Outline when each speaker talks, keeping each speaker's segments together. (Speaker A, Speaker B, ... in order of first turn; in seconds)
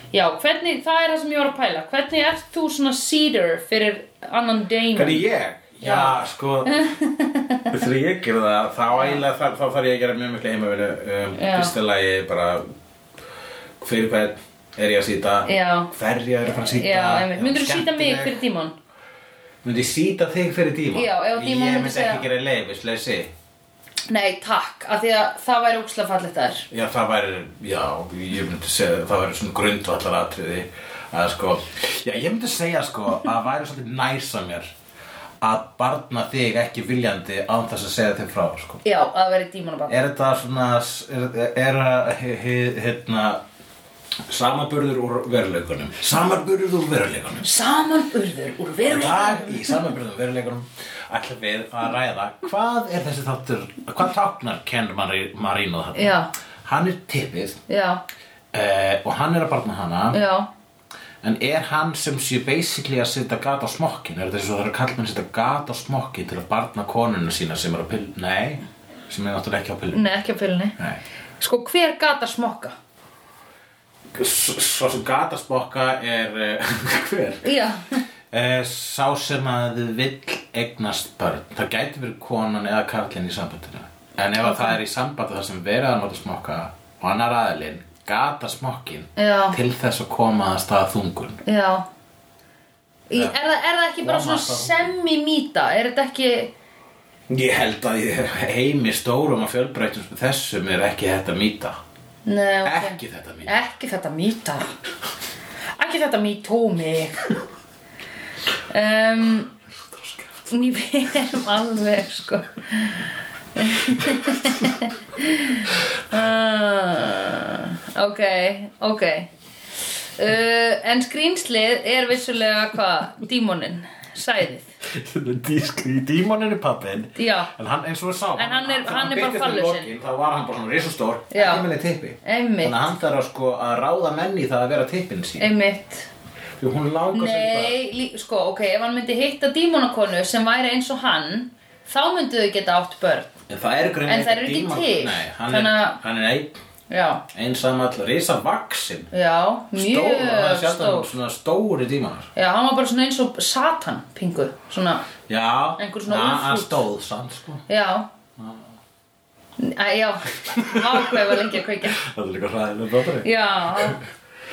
Speaker A: 0.1-5.2, 5.8-7.7, 8.9-9.2, 11.3-11.7, 15.4-15.9, 16.6-18.7, 20.9-22.2, 24.1-26.7, 38.8-40.0, 47.4-49.9, 55.9-56.3, 57.7-58.0, 60.1-60.5, 69.9-70.8, 71.4-72.7, 77.4-78.0, 84.4-84.8, 89.2-89.6, 91.4-91.9, 93.1-96.5, 102.2-104.7, 105.8-107.3, 108.7-109.5, 110.5-119.3, 120.2-124.7, 127.2-127.5, 128.4-129.9, 131.3-131.7, 132.2-132.9, 135.4-136.1, 137.1-143.3, 144.1-146.0, 146.9-147.2, 149.1-151.1, 152.4-155.1, 155.8-156.8, 157.7-158.1, 159.6-162.0, 163.2-164.0
Speaker B: 4.9-6.9, 7.7-12.7, 13.8-18.4, 19.6-23.3, 26.7-34.7, 35.4-38.8, 39.9-43.4, 44.2-47.5, 48.8-57.6, 58.5-60.2, 61.2-70.0, 74.1-77.5, 78.3-91.4, 94.0-94.9, 97.3-101.8, 102.6-103.5, 124.8-135.5, 136.6-137.8, 143.5-146.5, 147.3-149.1, 149.7-152.3, 155.3-157.6, 160.5-164.0